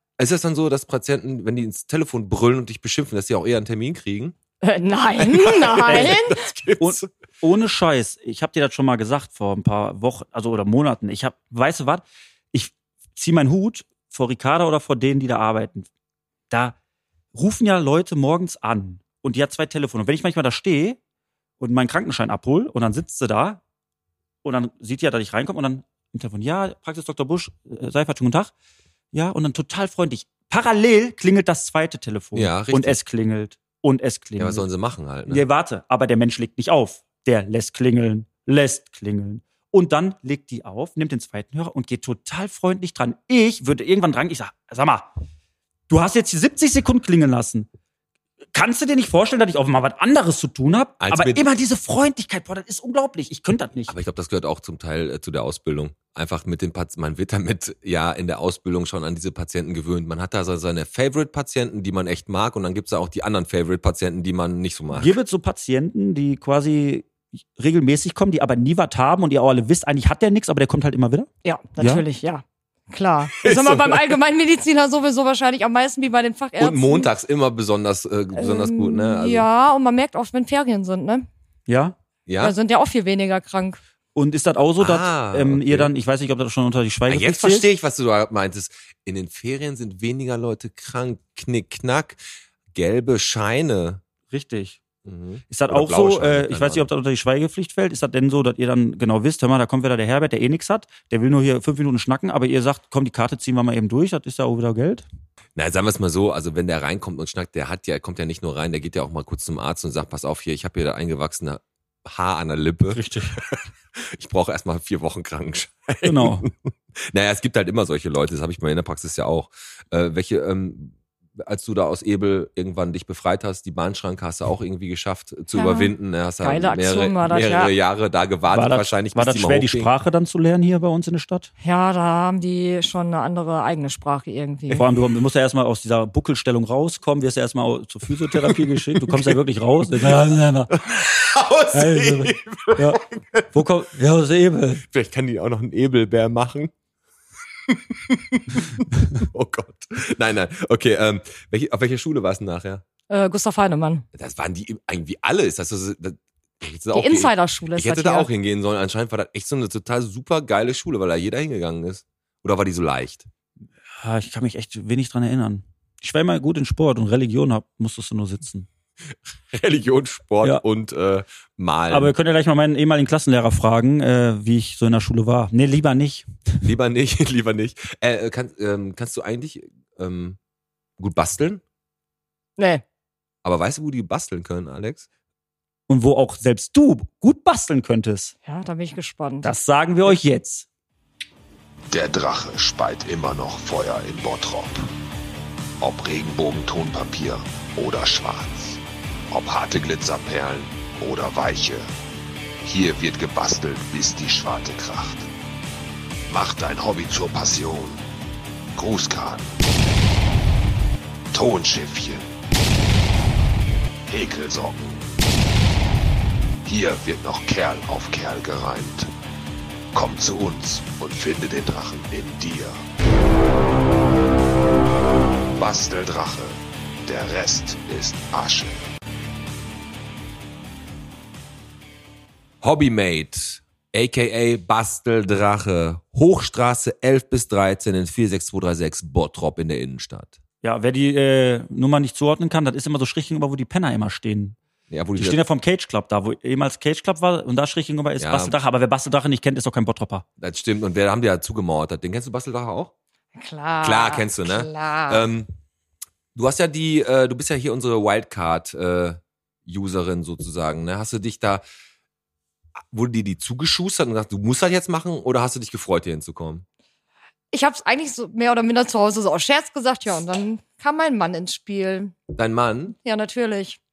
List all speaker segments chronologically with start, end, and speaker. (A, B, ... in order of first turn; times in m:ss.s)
0:00.2-0:04.4 A
0:04.6-0:06.4 B
0:05.2-0:07.1 A
0:05.8-0:06.2 C
0:06.8-0:15.9 C
0:16.5-0:16.8 C
0:17.3-0:21.0 C
0:21.6-0:23.6 C
0:24.4-0:28.5 C
0:29.1-0:34.7 C
0:32.3-0:33.0 A
0:34.4-0:35.4 A
0:35.3-0:45.1 C
0:45.9-0:47.7 C
0:48.5-0:54.0 C
0:51.0-0:51.4 A
0:53.9-1:05.2 A
1:04.9-1:12.0 C
1:11.4-1:17.1 B
1:13.4-1:14.1 A
1:16.6-1:19.4 A
1:18.4-1:21.3 B
1:21.7-1:21.9 C
1:22.3-1:22.6 A
1:22.4-1:23.8 B
1:24.1-1:27.7 C
1:24.8-1:25.9 A
1:27.1-1:32.2 A
1:32.7-1:34.0 A
1:34.3-1:34.8 C
1:35.0-1:36.9 A
1:35.5-1:45.0 C
1:45.5-2:09.9 A
1:52.9-1:53.4 C
1:56.0-1:56.5 C
2:05.5-2:07.7 B
2:08.5-2:11.5 C
2:11.6-2:14.8 B
2:14.8-2:20.8 C
2:18.3-2:19.4 A
2:19.9-2:20.2 A
2:20.7-2:23.5 A
2:21.7-2:24.8 C
2:24.8-2:26.7 A
2:27.7-2:32.8 A
2:33.1-2:34.0 B
2:34.1-2:43.2 A
2:36.9-2:38.3 B
2:44.0-2:48.7 C
2:49.5-2:52.1 A
2:51.9-2:56.3 C
2:56.6-3:00.4 A
3:01.0-3:01.6 A
3:02.6-3:02.8 B
3:03.4-3:05.1 A
3:05.9-3:08.3 C
3:08.4-3:09.5 B
3:09.4-3:10.7 C
3:11.9-3:14.9 D
3:15.8-3:21.9 D
3:22.6-3:25.3 D
3:26.3-3:28.0 D
3:28.8-3:29.6 D
3:31.3-3:32.3 D
3:34.1-3:35.1 D
3:36.6-3:39.1 D
3:39.9-3:42.8 D
3:45.6-3:48.8 D
3:52.6-4:00.4 A
4:00.6-4:04.6 C
4:04.9-4:05.4 A
4:05.2-4:10.2 C
4:08.2-4:08.6 A
4:10.4-4:12.9 A
4:13.3-4:15.3 B
4:13.8-4:15.5 A
4:16.3-4:21.6 A
4:22.9-4:26.6 A
4:27.5-4:32.2 B
4:32.4-4:33.0 A
4:33.0-4:33.8 B